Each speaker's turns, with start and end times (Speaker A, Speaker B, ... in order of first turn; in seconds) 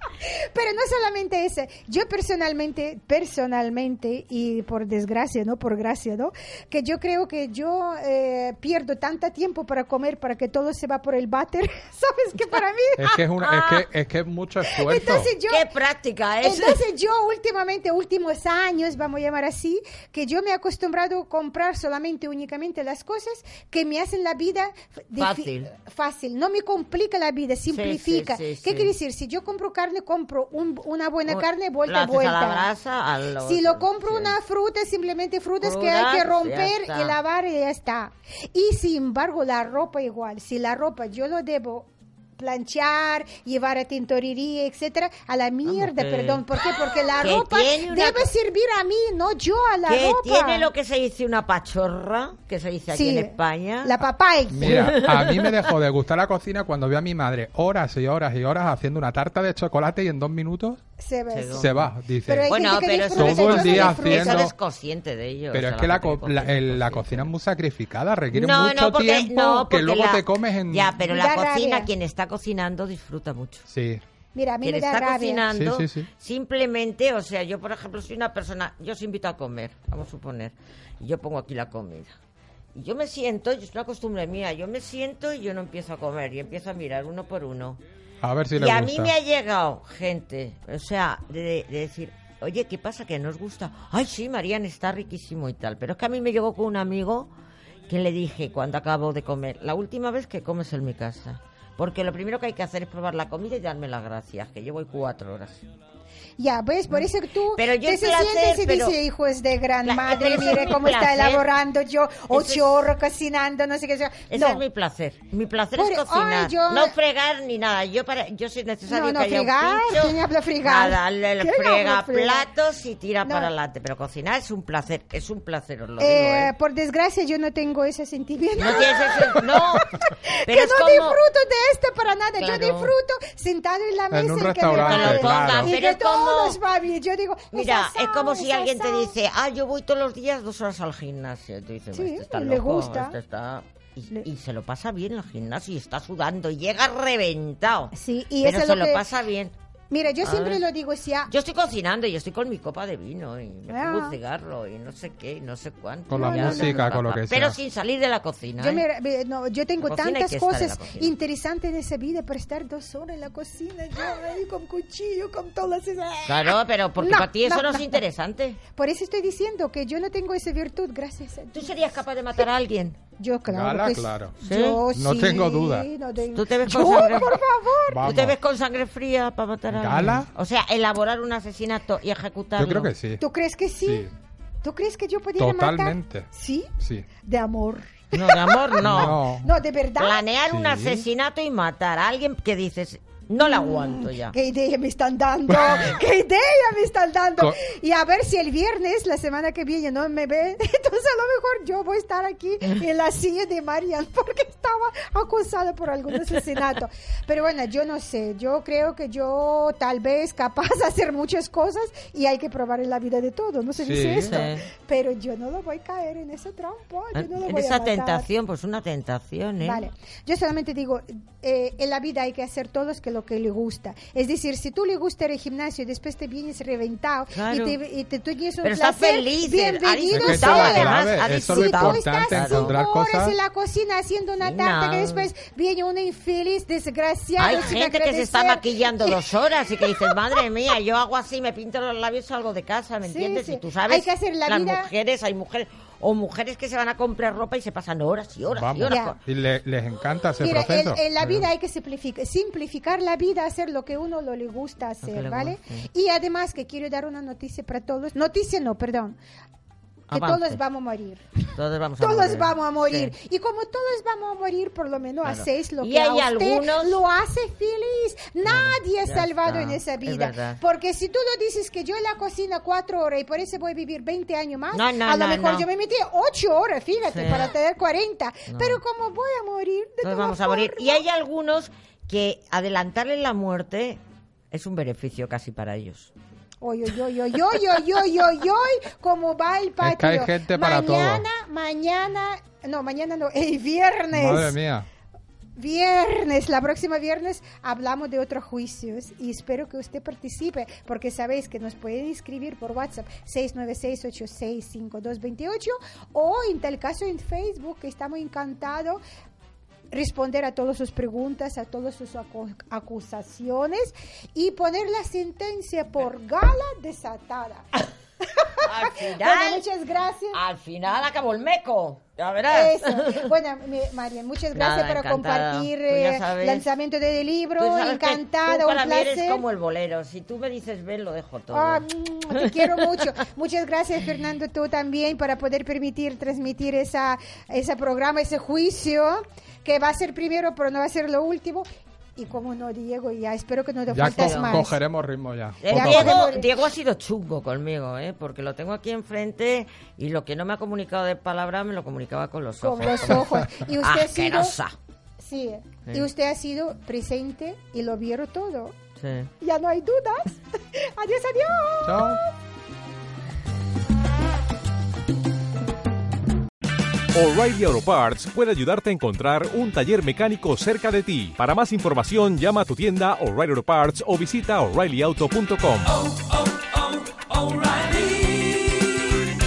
Speaker A: 0.3-13.1, 14.7-15.6, 16.4-32.7, 33.4-50.7, 52.9-55.0, 61.0-61.7, 62.2-64.5, 71.0-71.9, 74.3-75.4, 106.4-114.6, 115.7-116.9, 118.9-122.5, 123.2-123.5, 126.0-139.1, 141.9-143.2, 147.9-149.0, 149.9-151.3, 153.7-154.1, 156.1-156.8, 158.6-168.0, 168.7-171.7, 173.2-178.2, 183.2-184.1, 184.6-186.7, 187.2-190.2, 193.4-218.3, 219.6-240.4, 243.1-244.9, 248.9-249.1, 250.4-259.1, 260.1-281.0, 286.6-294.6, 295.6-309.0, 309.9-320.4, 322.5-329.4, 331.5-344.8, 345.7-346.5, 352.6-354.6, 355.2-358.7, 359.4-362.2
Speaker B: 13.0-15.3, 54.5-60.8, 61.5-62.5, 63.1-64.5, 65.5-71.0, 73.7-74.0, 75.5-76.1, 88.2-89.1, 134.1-135.7, 156.1-157.6, 173.5-174.4, 174.9-175.9, 177.9-178.4, 179.7-180.3, 182.6-183.2, 185.4-186.3, 186.8-187.1, 188.8-189.5, 190.5-191.0, 213.8-214.5, 230.1-233.3, 248.5-251.4, 289.8-291.2, 294.1-294.9, 343.9-346.3, 353.2-353.6, 361.8-362.2
Speaker C: 13.4-13.8, 15.5-16.8, 25.2-25.7, 27.7-28.9, 31.2-34.3, 35.6-37.2, 45.7-48.3, 49.9-54.0, 54.6-55.6, 61.3-61.9, 62.5-67.3, 68.3-73.7, 74.6-82.1, 82.7-87.8, 88.5-97.3, 97.9-105.6, 106.9-109.0, 109.8-111.5, 112.3-112.9, 114.3-126.5, 128.6-129.9, 130.4-131.2, 132.4-132.9, 134.6-136.6, 137.5-149.5, 150.2-150.6, 151.3-158.8, 159.8-161.1, 166.3-168.6, 171.5-173.0, 174.4-174.8, 176.3-177.4, 178.0-182.9, 188.1-189.2, 190.0-194.3, 214.2-214.7, 217.1-219.8, 227.3-227.8, 228.6-232.7, 234.4-235.3, 237.4-249.2, 255.0-255.9, 260.1-260.6, 261.5-263.1, 265.2-267.0, 268.4-270.6, 274.7-275.6, 277.1-277.5, 278.5-278.8, 280.0-284.0, 284.5-286.1, 318.6-319.6, 320.3-323.3, 324.5-326.7, 327.6-333.1, 344.0-344.6, 345.6-354.7, 359.0-359.3
Speaker D: 367.1-379.1